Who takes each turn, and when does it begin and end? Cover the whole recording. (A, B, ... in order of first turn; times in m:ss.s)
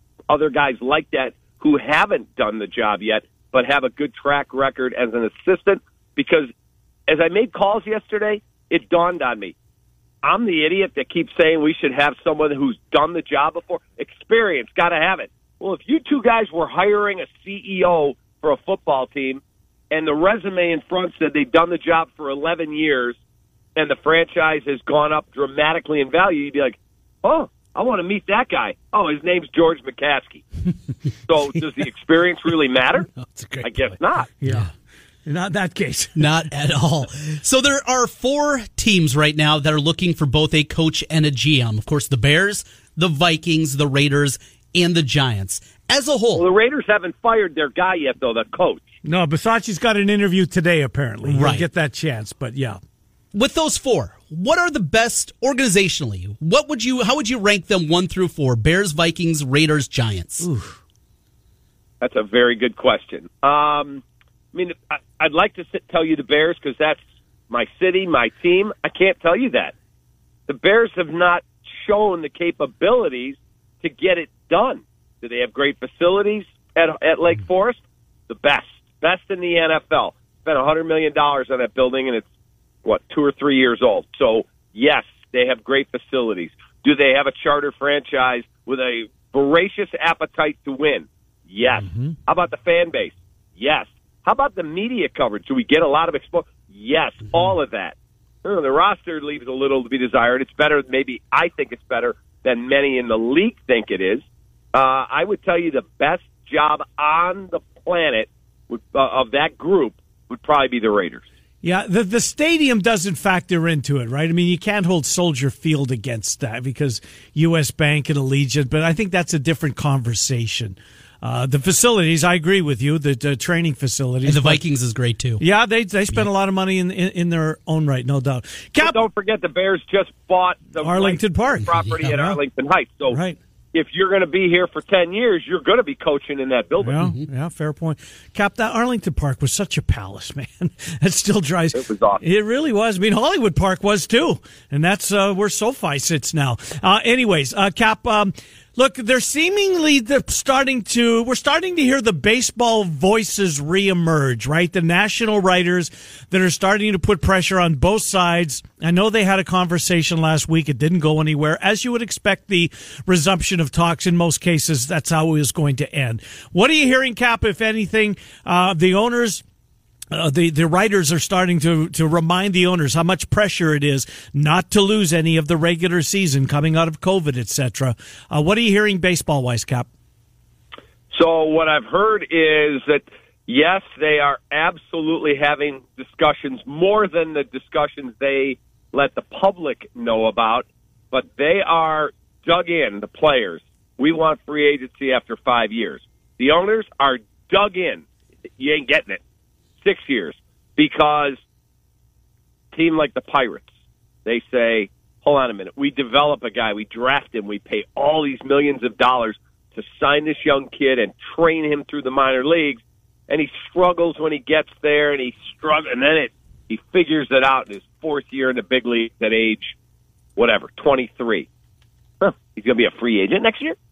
0:00.3-0:06.5 A
0:07.1-0:09.6 A
0:10.2-0:23.2 A
0:23.8-0:30.4 A
0:31.2-0:33.1 A
0:33.2-0:34.7 B
0:33.6-0:34.3 A
0:35.3-0:36.5 B
0:36.2-0:46.5 C
0:46.4-0:48.9 A
0:49.0-0:52.8 B
0:51.3-0:51.6 C
0:53.3-1:00.5 C
1:00.4-1:00.8 B
1:02.0-1:09.7 A
1:10.5-1:22.3 A
1:22.8-1:51.2 A
1:51.6-2:04.6 B
2:04.2-2:05.4 C
2:05.4-2:09.0 B
2:08.8-2:13.2 A
2:10.8-2:12.4 B
2:11.9-2:12.2 C
2:13.1-2:13.4 B
2:13.7-2:17.0 A
2:16.8-2:49.4 B
2:17.0-2:17.3 C
2:21.7-2:22.2 A
2:50.1-2:59.9 B
3:01.1-3:18.0 A
3:18.6-3:19.2 A
3:19.8-3:21.4 A
3:22.7-3:23.7 A
3:24.2-3:39.8 A
3:40.4-3:41.5 A
3:42.2-3:43.8 A